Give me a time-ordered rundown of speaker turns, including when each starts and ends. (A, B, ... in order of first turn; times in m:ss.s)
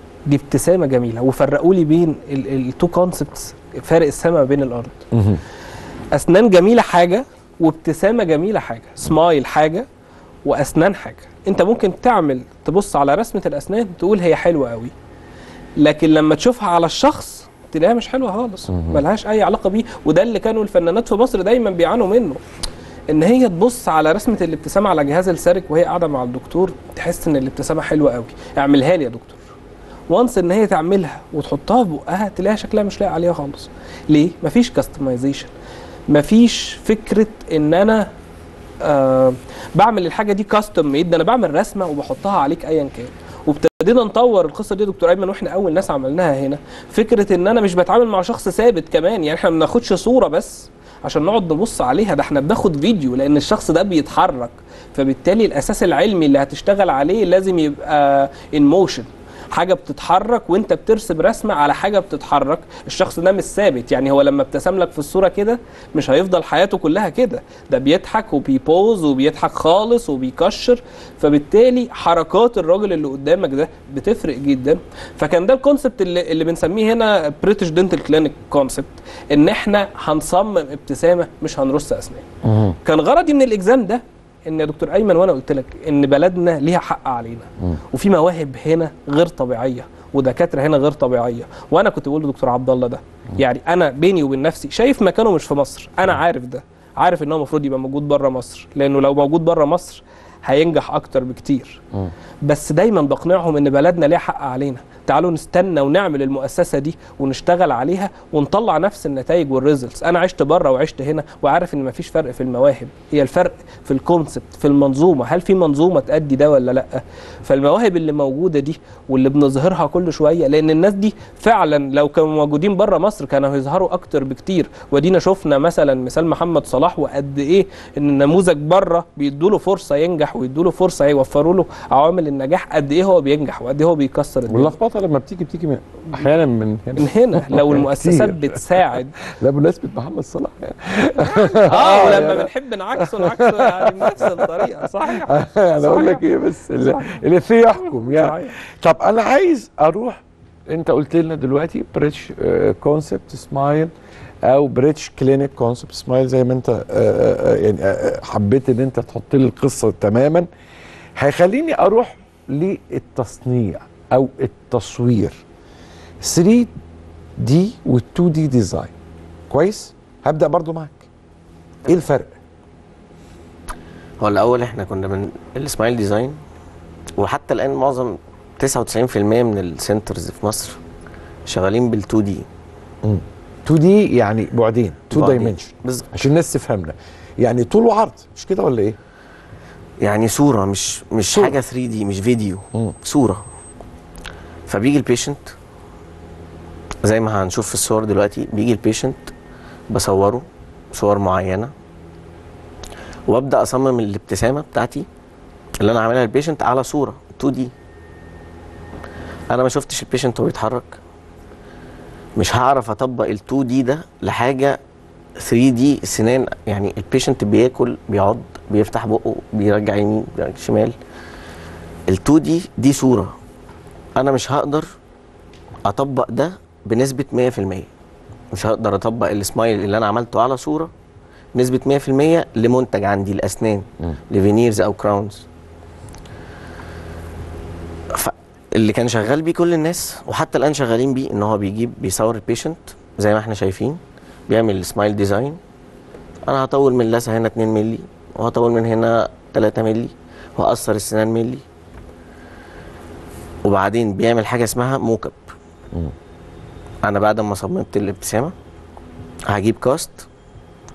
0:00.3-0:05.0 A
0:05.1-0:05.4 B
0:06.1-0:09.9 A
0:10.4-0:14.9 A
0:15.8-0:22.4 A
0:18.7-0:19.0 B
0:23.1-0:29.4 A
0:30.1-0:35.5 A
0:36.1-0:38.1 A
0:38.8-1:22.3 A
1:22.4-1:22.8 B
1:22.8-1:41.8 A
1:42.4-2:14.8 A
2:14.5-2:33.9 B
2:17.0-2:19.1 A
2:21.3-2:26.2 A
2:26.8-2:27.1 A
2:27.8-2:28.5 A
2:34.4-2:40.5 B
2:41.2-2:45.4 B
2:46.2-2:46.7 B
2:47.4-2:48.9 B
2:49.5-2:51.1 B
2:51.9-2:52.3 B
2:54.2-2:56.4 C
2:57.2-3:00.8 C
3:01.5-3:02.5 C
3:03.0-3:09.0 B
3:05.1-3:06.1 C
3:10.0-3:13.4 C
3:11.3-3:11.6 B
3:14.7-3:15.5 C
3:17.0-3:19.3 C
3:19.9-3:21.7 C
3:23.3-3:25.1 C
3:25.8-3:27.7 C
3:29.5-3:31.0 C
3:32.4-3:34.8 C
3:35.4-3:41.0 C
3:42.1-3:43.3 C
3:44.2-3:44.9 C
3:45.9-3:47.9 C
3:48.5-3:50.9 C
3:51.6-3:55.4 C
3:58.1-4:05.6 C
4:06.5-4:11.6 C
4:13.6-4:15.4 C
4:17.0-4:18.5 C
4:19.5-4:20.3 C